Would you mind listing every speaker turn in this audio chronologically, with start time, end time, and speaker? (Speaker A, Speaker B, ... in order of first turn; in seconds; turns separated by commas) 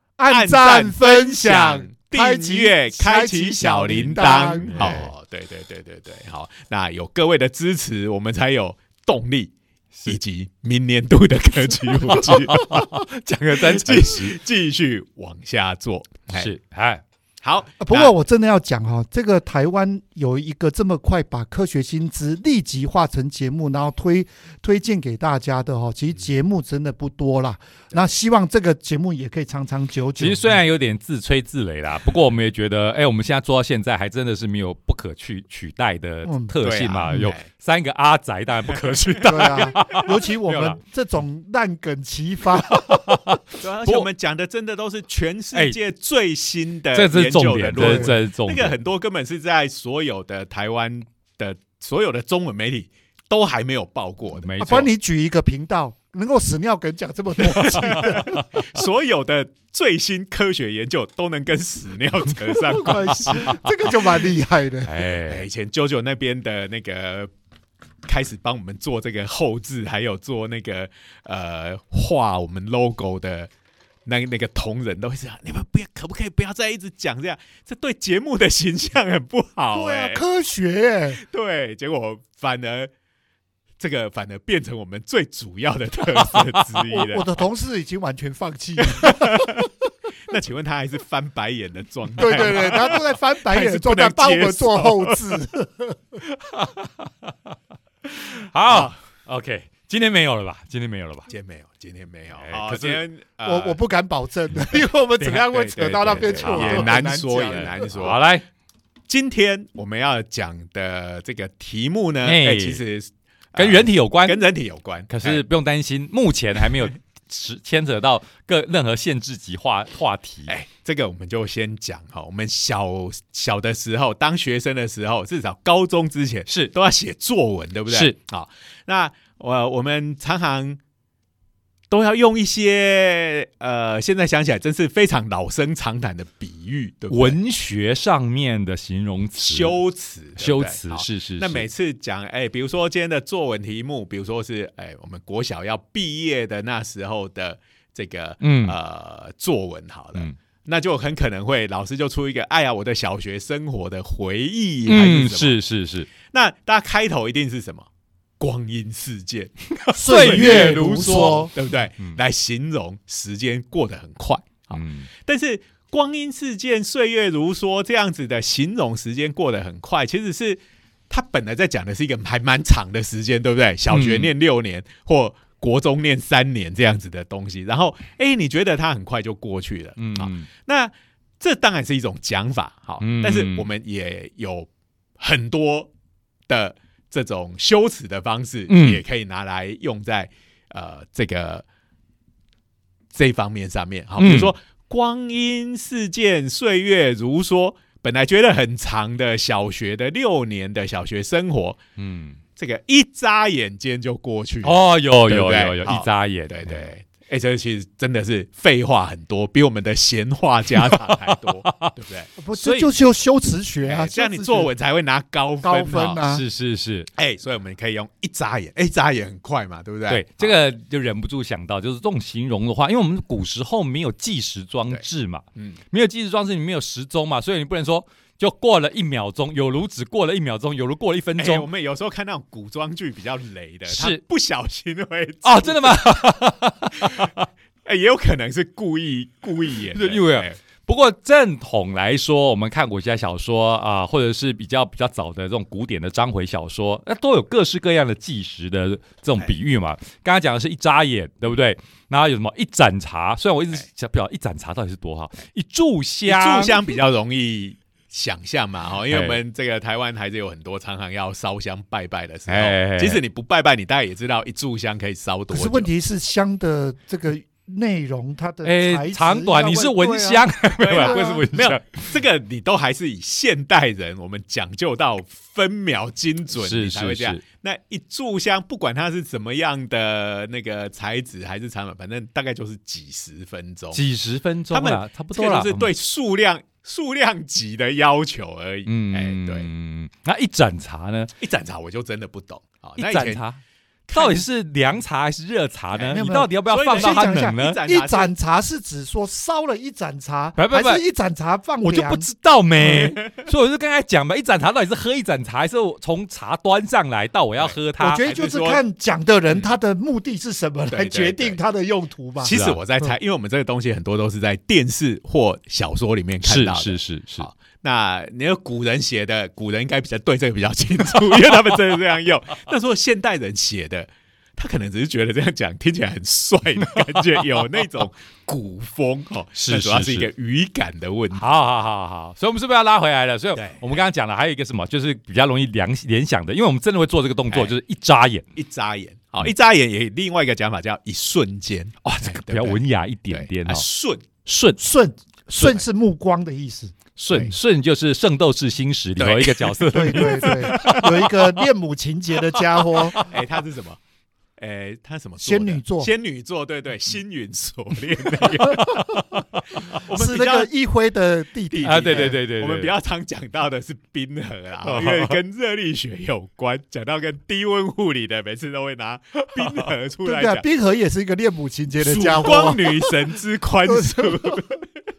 Speaker A: 0.2-5.0, Speaker B: 0.3-9.5, Speaker C: 4.6-5.1, Speaker B: 10.1-12.7, Speaker C: 12.0-14.4, Speaker B: 13.5-16.5, Speaker C: 16.3-17.0, Speaker B: 17.4-18.1, Speaker A: 17.8-30.6, Speaker C: 30.2-40.8, Speaker A: 36.2-36.5, Speaker B: 36.6-37.5, Speaker B: 38.7-40.0, Speaker A: 39.2-43.2, Speaker C: 42.6-44.1, Speaker B: 43.6-54.9, Speaker C: 46.9-48.7, Speaker A: 47.8-48.1, Speaker C: 54.4-54.9, Speaker A: 54.6-58.6, Speaker B: 57.4-63.6, Speaker C: 57.7-58.2, Speaker A: 62.5-65.0, Speaker C: 64.8-65.5, Speaker B: 65.2-67.3, Speaker B: 68.0-73.5, Speaker B: 74.0-80.2, Speaker A: 79.7-81.2, Speaker B: 81.2-82.9, Speaker B: 83.8-87.3, Speaker C: 86.4-86.6, Speaker A: 86.9-89.7, Speaker B: 88.8-89.7, Speaker B: 90.2-95.4, Speaker A: 92.2-96.2, Speaker C: 96.2-101.3, Speaker B: 98.7-98.9, Speaker B: 101.3-103.8, Speaker C: 102.3-103.0, Speaker A: 103.4-107.8, Speaker C: 105.2-108.4, Speaker B: 105.7-108.2, Speaker B: 109.1-115.4, Speaker C: 112.2-112.8, Speaker C: 113.5-114.4, Speaker C: 115.1-120.5, Speaker B: 120.5-130.8, Speaker C: 126.5-126.7, Speaker C: 127.9-128.2, Speaker B: 131.9-137.4, Speaker C: 137.1-139.8, Speaker B: 139.4-155.6, Speaker C: 140.4-141.7, Speaker C: 148.4-148.8, Speaker C: 154.8-156.1, Speaker B: 156.2-157.9, Speaker B: 158.4-159.5, Speaker C: 159.8-162.2, Speaker A: 159.9-161.5, Speaker B: 160.1-161.0, Speaker B: 161.5-185.9, Speaker C: 164.7-165.1, Speaker C: 173.9-174.3, Speaker C: 180.0-180.5, Speaker C: 183.0-183.7, Speaker B: 186.5-191.6, Speaker C: 188.7-189.0, Speaker B: 193.1-201.8, Speaker C: 194.2-194.5, Speaker C: 202.0-202.4, Speaker B: 202.6-212.9, Speaker C: 204.6-206.9, Speaker C: 210.7-211.9, Speaker A: 212.4-214.7, Speaker B: 213.8-216.2, Speaker A: 215.6-216.4, Speaker C: 216.2-217.1, Speaker B: 217.1-220.5, Speaker C: 220.1-231.7, Speaker B: 224.9-225.8, Speaker B: 231.4-236.0, Speaker C: 233.9-234.2, Speaker C: 235.4-237.5, Speaker B: 237.0-237.3, Speaker B: 237.8-240.6, Speaker C: 239.9-256.8, Speaker B: 256.2-265.9, Speaker C: 259.1-259.4, Speaker C: 262.5-263.2, Speaker A: 265.5-271.4, Speaker C: 268.6-272.1, Speaker B: 270.8-284.0, Speaker C: 276.5-277.4, Speaker C: 283.9-285.9, Speaker B: 284.7-289.7, Speaker C: 288.9-291.3, Speaker B: 291.4-293.4, Speaker C: 293.0-293.6, Speaker B: 294.1-294.4, Speaker C: 294.1-297.8, Speaker B: 295.9-298.3, Speaker A: 296.1-302.3, Speaker C: 300.6-301.0, Speaker C: 301.8-308.2, Speaker B: 307.6-308.8, Speaker A: 308.0-312.6, Speaker B: 310.9-311.6, Speaker B: 312.4-331.4, Speaker C: 312.5-312.8, Speaker C: 316.4-317.5, Speaker C: 329.5-330.3, Speaker C: 331.3-338.4, Speaker B: 333.6-333.9, Speaker B: 338.5-344.2, Speaker C: 342.0-343.8, Speaker C: 344.4-344.8, Speaker A: 344.8-347.0, Speaker C: 347.1-351.4, Speaker B: 349.2-351.2, Speaker A: 349.9-353.2, Speaker C: 352.8-353.3, Speaker B: 353.2-354.0, Speaker B: 354.6-359.1, Speaker A: 355.4-356.1, Speaker C: 358.6-360.0, Speaker B: 359.9-360.7, Speaker A: 360.1-362.4, Speaker B: 361.7-370.6, Speaker C: 361.8-362.9, Speaker C: 364.8-365.4, Speaker A: 370.2-373.1, Speaker B: 372.0-374.8, Speaker A: 373.9-374.7